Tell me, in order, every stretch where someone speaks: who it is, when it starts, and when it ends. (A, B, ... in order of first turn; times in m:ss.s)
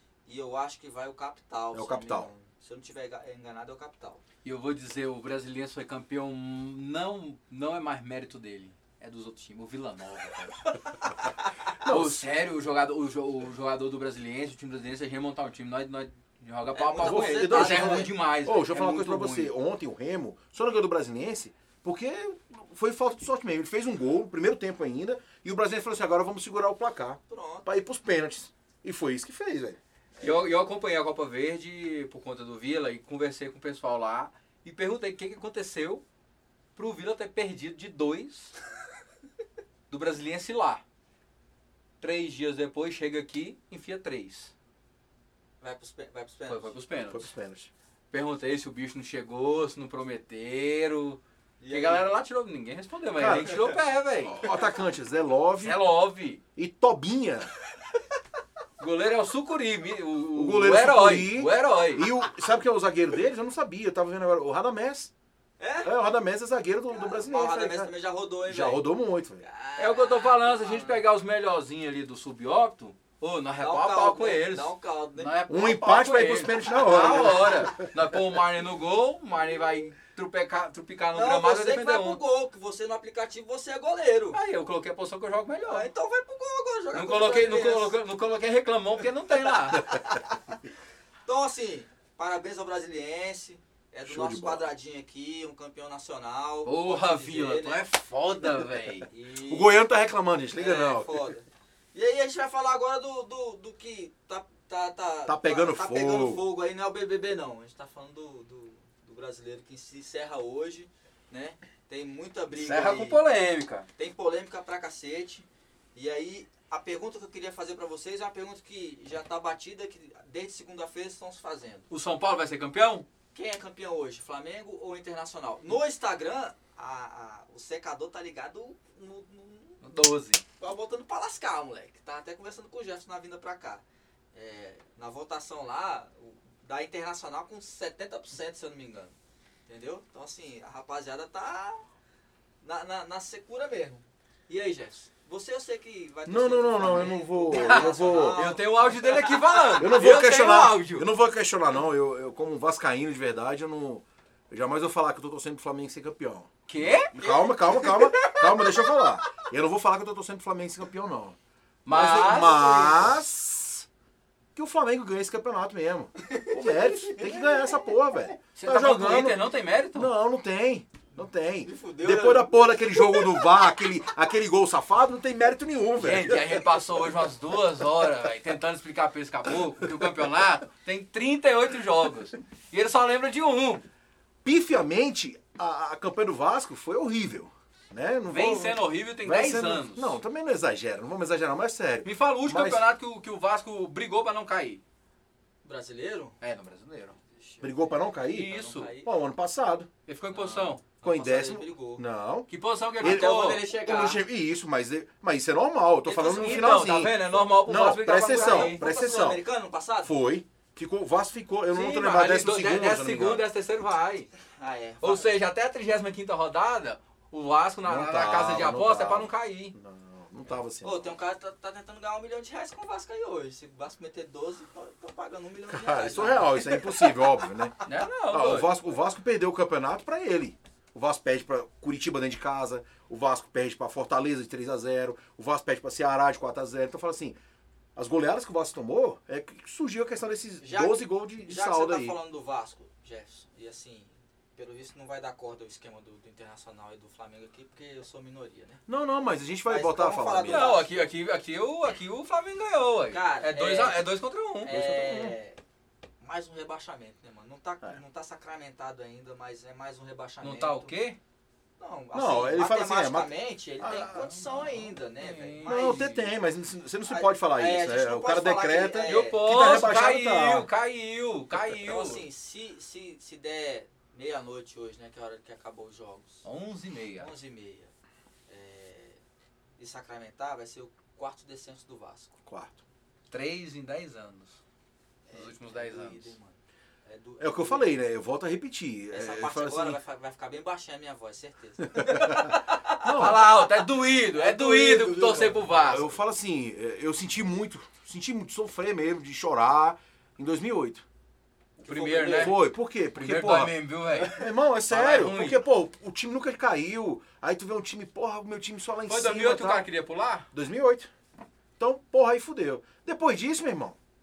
0:00.3-0:04.2 A
0:01.7-0:02.3 B
0:04.4-0:10.8 C
0:11.8-0:12.3 B
0:11.8-0:19.5 C
0:16.7-0:18.1 A
0:17.0-0:29.8 B
0:27.3-0:27.7 A
0:30.2-0:36.0 C
0:36.8-0:38.6 C
0:39.9-0:40.8 C
0:42.0-0:44.5 C
0:45.6-0:46.8 A
0:46.5-0:47.3 C
0:47.1-0:47.7 B
0:48.1-0:54.5 C
0:51.6-0:52.1 A
0:53.2-0:53.7 B
0:54.3-0:55.8 B
0:55.6-0:56.4 C
0:56.6-0:57.5 B
0:58.8-1:02.1 C
1:00.4-1:05.1 B
1:05.6-1:05.9 A
1:05.8-1:07.9 B
1:06.9-1:08.9 A
1:08.5-1:09.4 B
1:09.4-1:11.0 A
1:09.8-1:22.2 C
1:13.6-1:15.4 A
1:15.5-1:17.9 B
1:21.1-1:24.4 A
1:24.3-1:25.9 C
1:25.7-1:28.0 A
1:26.9-1:29.9 C
1:29.8-1:30.2 A
1:31.3-1:37.8 A
1:34.1-1:34.7 B
1:36.6-1:39.1 C
1:39.1-1:39.8 A
1:39.4-1:41.3 B
1:40.6-1:53.2 A
1:45.3-1:46.4 B
1:52.5-1:53.9 C
1:54.0-2:01.9 A
2:01.9-2:03.1 C
2:03.3-2:09.8 A
2:09.8-2:10.4 C
2:10.6-2:13.8 A
2:14.3-2:19.2 A
2:19.7-2:21.8 A
2:22.6-2:29.9 A
2:26.3-2:28.5 B
2:27.5-2:31.1 C
2:29.8-2:43.9 B
2:36.7-2:37.1 C
2:37.2-2:38.4 A
2:41.9-2:43.2 C
2:44.6-2:49.4 B
2:46.2-2:47.4 A
2:48.5-2:50.1 C
2:49.9-2:56.6 B
2:51.2-2:53.5 A
2:56.0-3:03.8 C
3:04.4-3:12.9 B
3:08.3-3:10.2 C
3:12.0-3:14.8 C
3:15.6-3:16.4 A
3:16.4-3:17.2 C
3:17.4-3:19.1 A
3:17.6-3:19.9 B
3:18.3-3:18.9 C
3:20.1-3:20.8 C
3:20.3-3:22.0 A
3:21.0-3:29.4 B
3:22.5-3:24.1 C
3:23.0-3:24.2 A
3:26.1-3:26.7 A
3:26.2-3:28.8 C
3:28.2-3:30.2 A
3:30.0-3:33.5 B
3:31.7-3:34.3 C
3:34.6-3:35.3 A
3:35.0-3:39.8 C
3:37.8-3:41.1 B
3:40.8-3:47.2 A
3:45.7-3:57.4 B
3:47.8-3:48.7 C
3:58.0-4:02.2 B
4:00.6-4:08.8 A
4:08.9-4:10.8 B
4:09.6-4:10.9 A
4:10.5-4:14.8 C
4:13.1-4:14.1 A
4:14.6-4:15.6 A
4:14.7-4:15.4 B
4:16.2-4:20.9 A
4:20.4-4:21.2 C
4:21.8-4:26.2 A
4:22.1-4:24.3 B
4:24.2-4:26.3 C
4:25.6-4:30.7 B
4:27.1-4:29.4 A
4:29.0-4:32.2 C
4:31.8-4:36.5 A
4:36.4-4:37.3 C
4:37.2-4:37.9 A
4:38.5-4:39.2 A
4:39.8-4:42.4 A
4:42.5-4:42.8 B
4:43.3-4:44.6 C
4:45.3-4:48.0 A
4:45.3-4:46.4 C
4:47.4-4:50.0 B
4:49.1-4:56.0 A
4:51.9-4:52.5 B
4:53.0-4:53.5 B
4:53.0-4:56.2 C
4:55.8-5:01.0 B
5:01.8-5:02.6 A
5:01.9-5:05.6 C
5:02.3-5:09.9 B
5:09.1-5:10.5 C
5:10.5-5:11.1 B
5:11.8-5:14.0 B